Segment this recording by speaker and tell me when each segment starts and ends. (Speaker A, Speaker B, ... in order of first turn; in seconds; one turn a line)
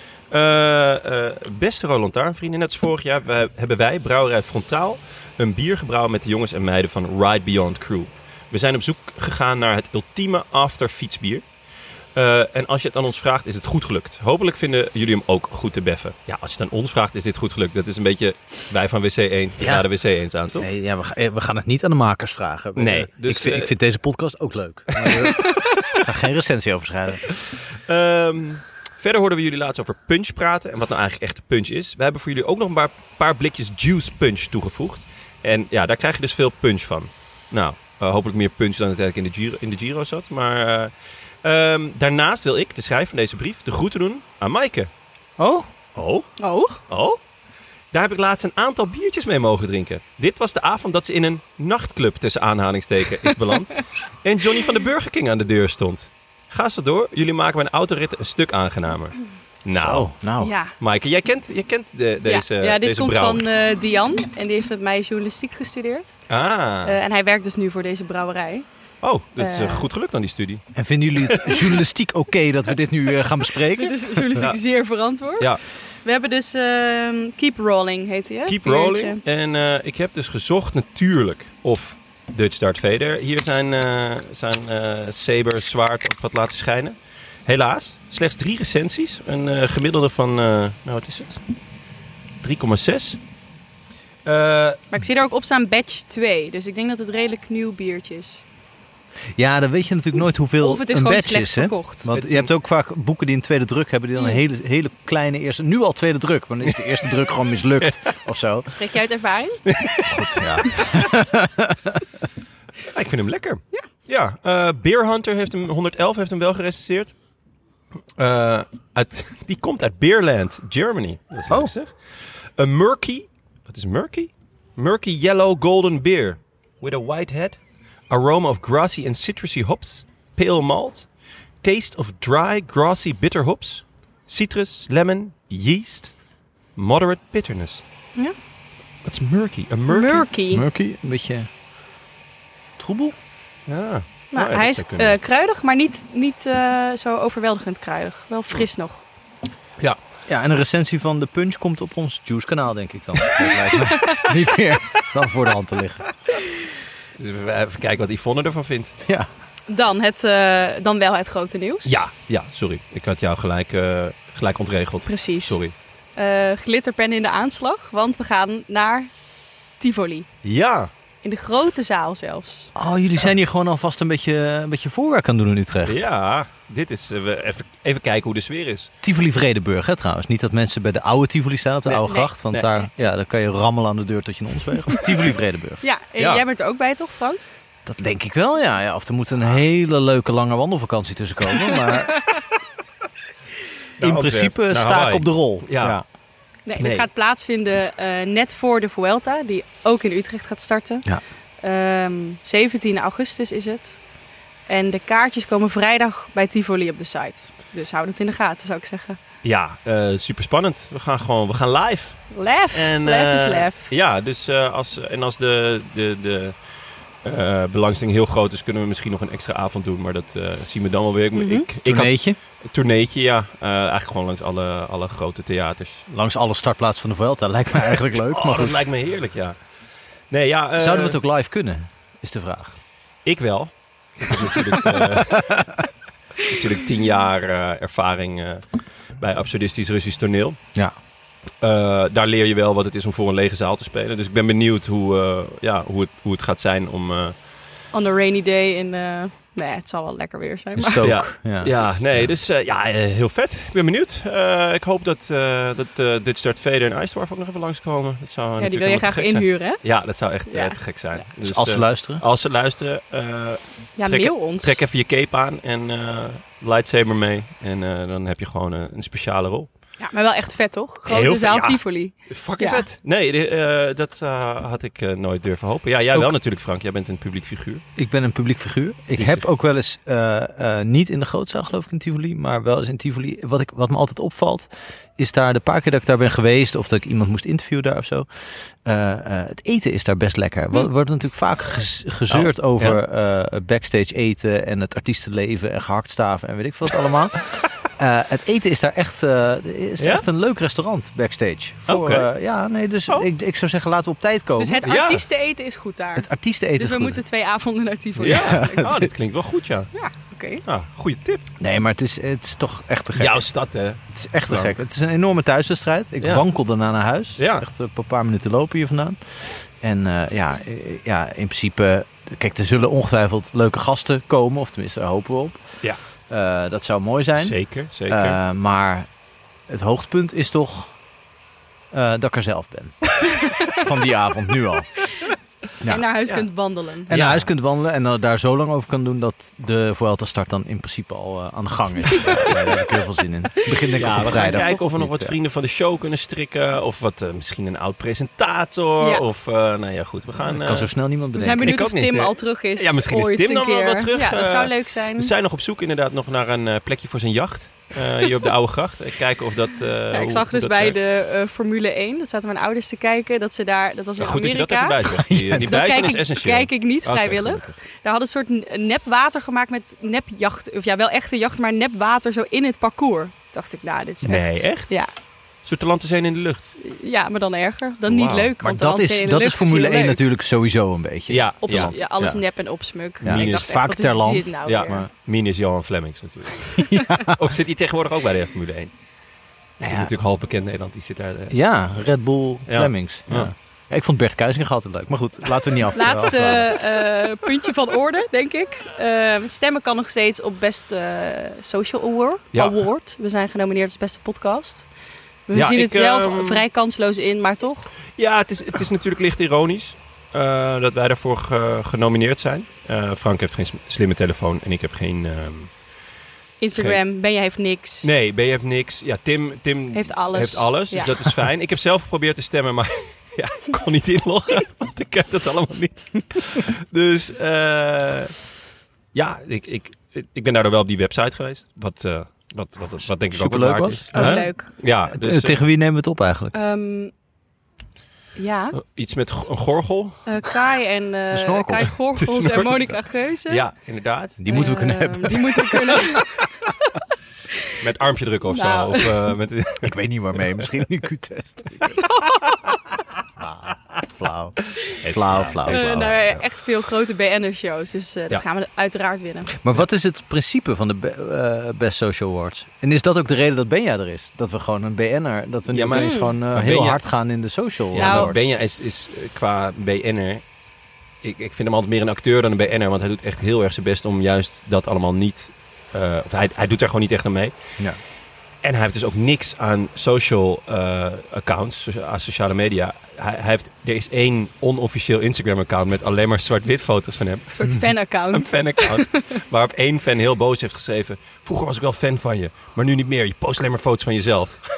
Speaker A: 0.3-11.4
Speaker A: 12.2-20.7
Speaker B: 19.6-19.9
Speaker B: 20.6-27.3
Speaker A: 22.8-23.7
Speaker A: 24.9-25.4
Speaker A: 27.4-40.9
Speaker A: 41.4-44.9
Speaker B: 45.4-45.7
Speaker A: 46.0-46.3
Speaker C: 46.4-46.8
Speaker A: 46.9-47.2
Speaker A: 47.9-60.1
Speaker B: 59.8-60.5
Speaker C: 60.4-60.7
Speaker A: 60.8-63.5
Speaker C: 62.2-66.2
Speaker A: 66.3-67.0
Speaker C: 66.8-68.7
Speaker A: 69.0-70.7
Speaker C: 69.4-69.9
Speaker B: 70.8-74.2
Speaker A: 71.2-71.8
Speaker C: 73.8-79.2
Speaker A: 78.5-91.4
Speaker A: 92.4-93.2
Speaker A: 94.2-94.8
Speaker C: 94.9-98.4
Speaker B: 99.4-108.7
Speaker C: 100.6-102.1
Speaker A: 102.1-102.5
Speaker C: 108.7-109.7
Speaker A: 109.7-111.0
Speaker B: 110.1-112.0
Speaker A: 112.8-117.1
Speaker A: 118.2-127.6
Speaker A: 128.1-131.1
Speaker A: 131.6-136.2
Speaker A: 136.8-137.8
Speaker A: 139.1-140.3
Speaker C: 139.9-140.6
Speaker B: 140.5-141.5
Speaker B: 142.8-143.2
Speaker A: 143.7-145.2
Speaker C: 144.3-149.0
Speaker B: 150.3-156.1
Speaker C: 153.7-154.3
Speaker A: 157.2-159.0
Speaker B: 159.1-159.3
Speaker C: 159.7-162.0
Speaker A: 161.8-165.7
Speaker C: 165.1-165.6
Speaker C: 166.2-169.1
Speaker C: 169.8-170.3
Speaker A: 170.4-170.9
Speaker C: 171.2-172.7
Speaker B: 172.8-176.1
Speaker A: 175.8-178.9
Speaker B: 179.0-185.8
Speaker A: 181.9-182.7
Speaker C: 185.8-187.4
Speaker A: 186.2-186.4
Speaker B: 187.8-192.3
Speaker C: 192.2-192.4
Speaker A: 194.0-196.0
Speaker B: 194.0-196.1
Speaker C: 196.7-201.1
Speaker A: 196.8-197.1
Speaker C: 201.6-204.0
Speaker C: 204.7-209.2
Speaker A: 209.4-216.6
Speaker C: 212.3-213.9
Speaker A: 217.2-226.1
Speaker C: 221.3-221.7
Speaker B: 221.8-222.4
Speaker B: 226.1-228.8
Speaker A: 228.3-229.6
Speaker A: 230.3-231.2
Speaker B: 230.8-232.8
Speaker A: 233.2-235.6
Speaker B: 234.3-235.8
Speaker A: 236.4-238.6
Speaker A: 239.2-240.6
Speaker A: 241.6-247.3
Speaker C: 247.9-251.1
Speaker B: 250.8-252.3
Speaker A: 251.0-269.7
Speaker C: 251.7-251.9
Speaker C: 258.6-259.8
Speaker C: 260.5-261.2
Speaker B: 261.4-262.2
Speaker C: 264.0-264.8
Speaker C: 270.0-272.9
Speaker A: 271.1-277.8
Speaker B: 276.1-276.4
Speaker B: 278.0-288.3
Speaker A: 279.2-279.4
Speaker B: 288.8-305.2
Speaker A: 292.3-293.0
Speaker A: 300.0-300.3
Speaker A: 301.9-302.3
Speaker C: 304.6-309.0
Speaker A: 304.9-305.2
Speaker B: 306.2-307.2
Speaker B: 308.2-309.1
Speaker A: 308.2-309.9
Speaker C: 309.9-310.6
Speaker A: 310.6-311.4
Speaker B: 311.6-313.4
Speaker A: 313.1-314.8
Speaker B: 314.1-325.6
Speaker A: 317.4-317.7
Speaker B: 326.3-327.6
Speaker A: 327.4-328.4
Speaker B: 328.1-329.1
Speaker B: 329.7-330.9
Speaker B: 331.9-334.9
Speaker C: 333.2-333.8
Speaker C: 335.9-337.1
Speaker A: 337.1-337.5
Speaker B: 337.1-345.4
Speaker A: 343.9-350.9
Speaker C: 344.5-344.8
Speaker B: 350.5-351.8
Speaker C: 351.4-355.3
Speaker A: 351.6-361.0
Speaker C: 360.1-365.0
Speaker A: 364.2-367.7
Speaker B: 365.1-366.0
Speaker C: 365.6-375.1
Speaker A: 374.2-374.9
Speaker A: 375.6-376.7
Speaker C: 376.8-380.2
Speaker A: 378.1-378.5
Speaker B: 378.6-382.1
Speaker A: 381.3-382.4
Speaker C: 381.6-385.0
Speaker A: 383.2-383.7
Speaker B: 383.2-385.1
Speaker A: 384.7-388.9
Speaker B: 386.9-387.5
Speaker A: 389.8-391.6
Speaker B: 389.8-390.1
Speaker B: 391.5-396.8
Speaker A: 392.7-393.5
Speaker C: 395.9-404.9
Speaker A: 402.5-402.8
Speaker C: 405.5-407.9
Speaker A: 405.5-406.6
Speaker A: 408.1-415.7
Speaker C: 416.6-418.1
Speaker A: 418.0-428.4
Speaker C: 419.9-421.4
Speaker A: 429.1-435.6
Speaker B: 433.3-434.5
Speaker C: 434.1-434.7
Speaker B: 435.1-436.6
Speaker C: 436.5-437.1
Speaker C: 438.4-438.8
Speaker A: 438.8-440.3
Speaker C: 440.3-443.6
Speaker B: 441.3-441.9
Speaker A: 442.1-444.7
Speaker B: 444.4-446.0
Speaker C: 444.5-446.4
Speaker A: 447.8-450.0
Speaker C: 448.5-449.1
Speaker B: 449.8-452.0
Speaker C: 452.0-452.8
Speaker B: 453.4-456.0
Speaker A: 455.0-456.4
Speaker C: 455.6-459.5
Speaker B: 459.6-468.4
Speaker A: 465.7-467.0
Speaker C: 465.9-466.4
Speaker A: 467.9-470.4
Speaker C: 468.0-468.4
Speaker A: 471.2-477.5
Speaker A: 478.6-487.6
Speaker C: 487.5-489.3
Speaker A: 488.3-494.6